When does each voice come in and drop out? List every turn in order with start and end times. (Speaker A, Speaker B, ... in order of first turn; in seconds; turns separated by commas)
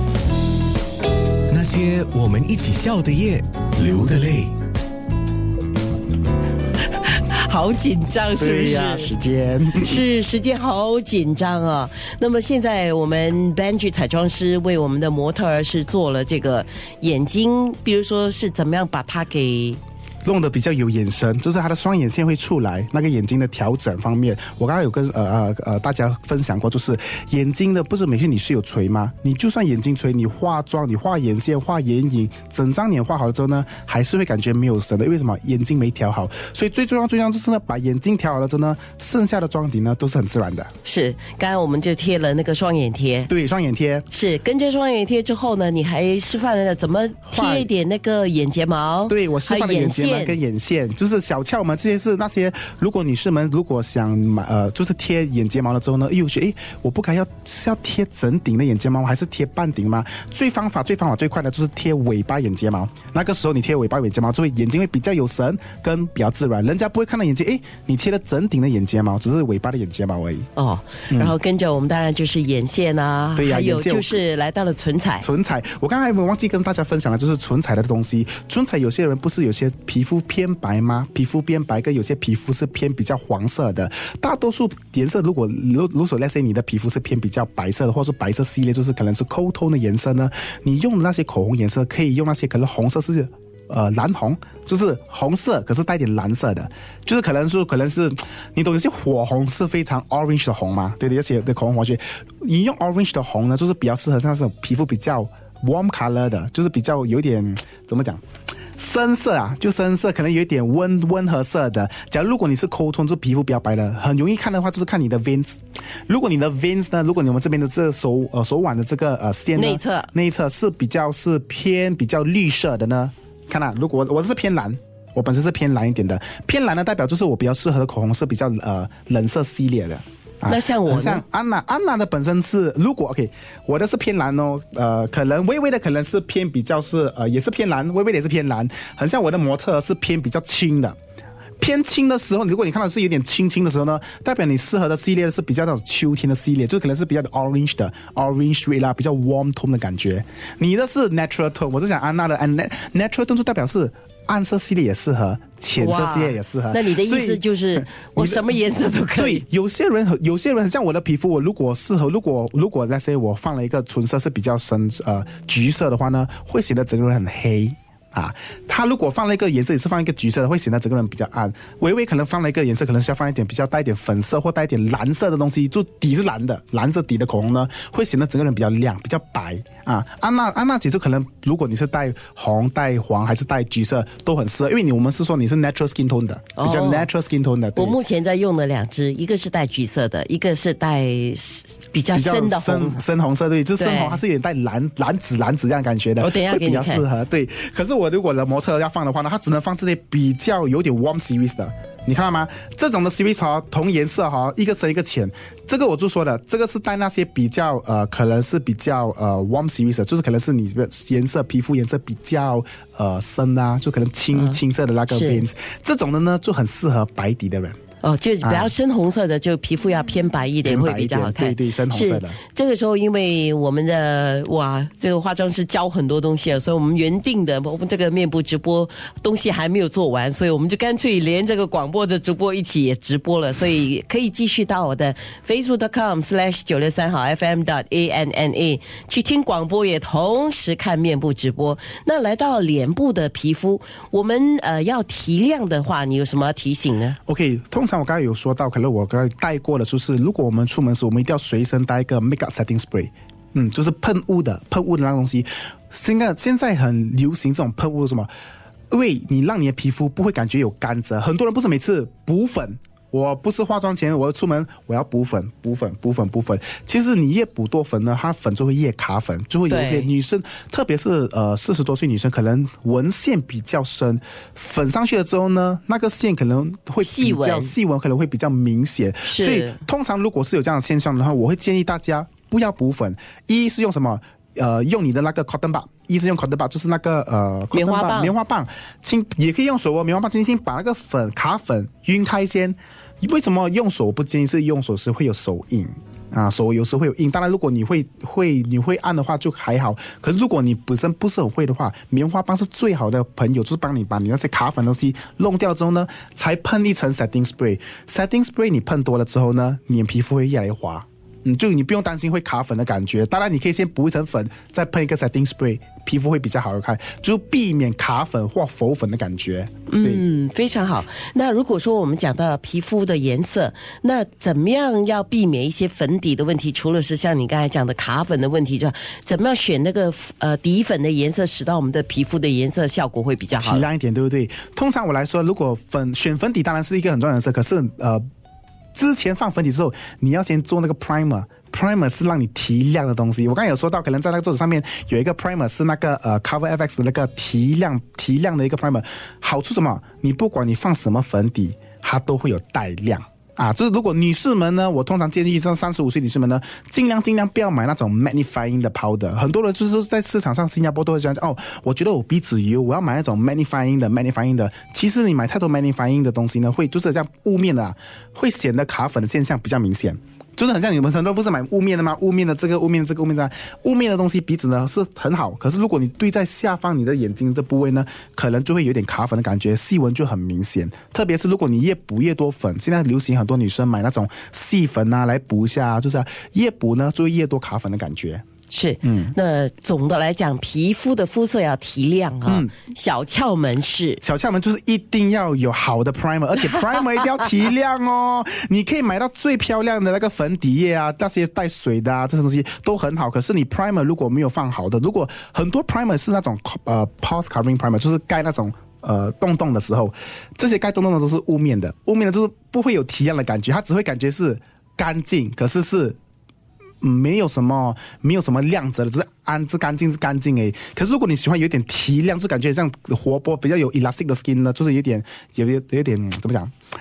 Speaker A: 1.5-4.5, Speaker B: 6.8-9.1, Speaker C: 8.4-10.0, Speaker B: 9.7-19.8, Speaker C: 20.2-40.7, Speaker B: 40.8-43.3, Speaker C: 43.3-44.0, Speaker B: 44.1-50.4, Speaker C: 47.3-47.7, Speaker C: 49.1-70.5, Speaker B: 70.5-75.3, Speaker C: 71.1-71.3, Speaker C: 73.3-74.2, Speaker C: 75.2-108.2, Speaker C: 108.8-141.0, Speaker B: 119.5-120.1, Speaker B: 130.4-131.2, Speaker C: 141.6-158.6, Speaker B: 155.8-159.4, Speaker C: 159.2-188.0, Speaker B: 186.6-187.1, Speaker B: 187.8-193.0, Speaker C: 192.1-217.8, Speaker B: 193.8-194.2, Speaker B: 196.2-197.0, Speaker B: 214.3-215.5, Speaker B: 218.0-247.2, Speaker C: 218.4-218.7, Speaker C: 220.6-222.4, Speaker C: 247.2-258.3, Speaker C: 258.9-320.2, Speaker B: 269.7-270.1, Speaker B: 277.0-277.7, Speaker B: 279.2-279.8, Speaker B: 287.7-288.3, Speaker B: 319.9-333.9, Speaker C: 333.6-338.2, Speaker C: 338.9-388.4, Speaker B: 388.7-394.2, Speaker C: 389.0-389.3, Speaker C: 392.4-392.7, Speaker C: 394.2-416.2, Speaker C: 417.0-426.7